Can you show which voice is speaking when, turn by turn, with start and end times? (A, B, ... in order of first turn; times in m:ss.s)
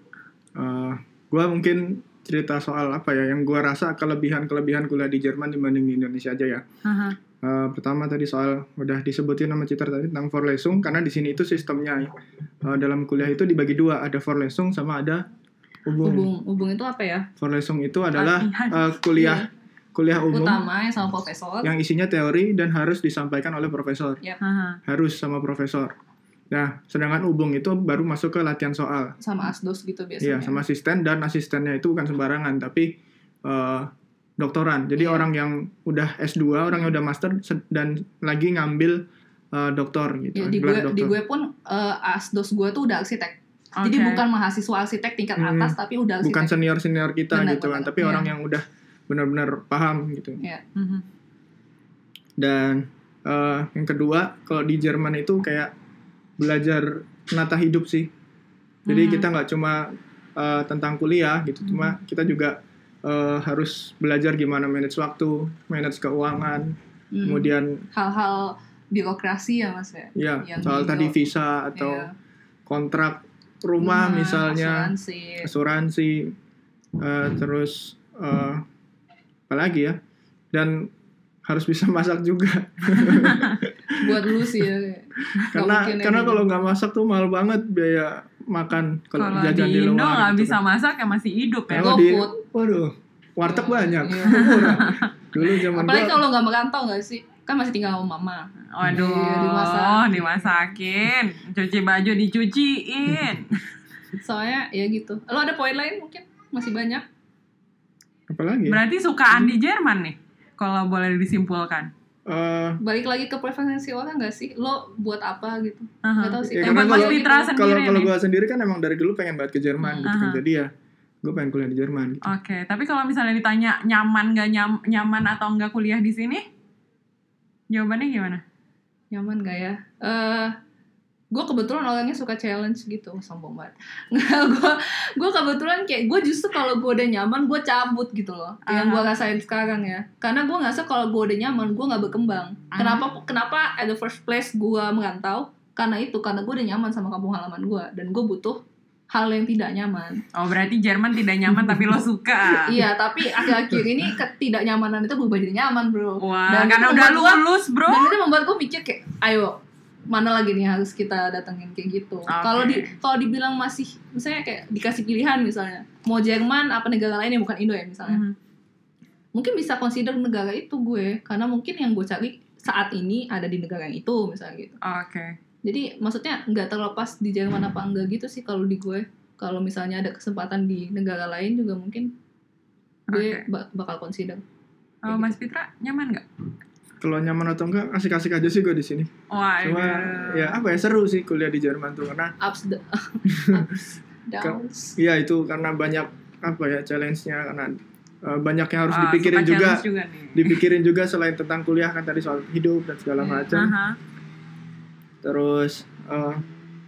0:00.6-0:06.6 A
0:06.8-0:07.2 B
0:07.4-0:15.3 A
0:15.9-0:16.3 A
0:16.0-0:17.3 C
0:17.4-0:20.6 A
0:18.2-0:18.9 B
0:19.2-0:19.5 C
0:20.3-0:21.7 C
0:21.6-0:24.2 A
0:24.4-0:24.8 B
0:24.9-0:26.0 A
0:26.5-0:29.2 A
0:29.2-0:30.6 C
0:30.2-0:41.1 A
0:35.0-0:35.3 C
0:40.4-0:46.5 C
0:43.8-0:44.2 B
0:45.4-0:50.4 A
0:47.3-0:48.3 C
0:50.8-0:51.0 B
0:52.4-0:55.7 A
0:56.4-0:58.1 A
0:58.9-0:59.3 B
0:58.9-1:07.8 A
1:07.1-1:11.2 C
1:10.2-1:12.1 A
1:11.7-1:12.1 C
1:12.7-1:14.9 A
1:13.8-1:15.5 C
1:15.4-1:16.4 A
1:17.0-1:18.6 A
1:19.5-1:20.0 A
1:20.5-1:20.9 A
1:21.4-1:24.7 A
1:24.0-1:26.4 C
1:25.4-1:30.6 A
1:29.2-1:32.0 B
1:31.7-1:36.2 A
1:31.8-1:32.4 C
1:33.5-1:40.7 C
1:34.4-1:35.1 B
1:38.7-1:43.6 B
1:44.2-1:47.0 C
1:48.3-1:49.6 A
1:48.7-1:51.9 B
1:52.3-1:52.8 A
1:52.8-1:57.5 C
1:56.0-1:58.1 B
1:56.5-2:00.7 A
1:59.8-2:00.1 C
2:00.0-2:00.4 B
2:01.2-2:02.3 A
2:02.2-2:06.4 B
2:07.7-2:08.4 B
2:09.1-2:10.6 C
2:11.3-2:30.2 C
2:18.7-2:19.1 B
2:22.8-2:23.0 B
2:30.3-2:32.8 B
2:32.7-2:48.2 C
2:36.2-2:38.2 B
2:42.3-2:42.9 B
2:48.1-2:48.4 B
2:49.4-2:54.8 C
2:54.8-2:55.4 B
2:55.6-3:02.1 C
3:03.1-3:03.4 B
3:03.1-3:04.4 C
3:05.0-3:06.2 B
3:05.1-3:05.4 C
3:07.0-3:12.4 A
3:09.3-3:10.6 B
3:12.4-3:15.0 C
3:13.3-3:13.7 A
3:14.4-3:23.8 A
3:18.9-3:20.6 B
3:23.5-3:24.0 B
3:25.2-3:26.4 A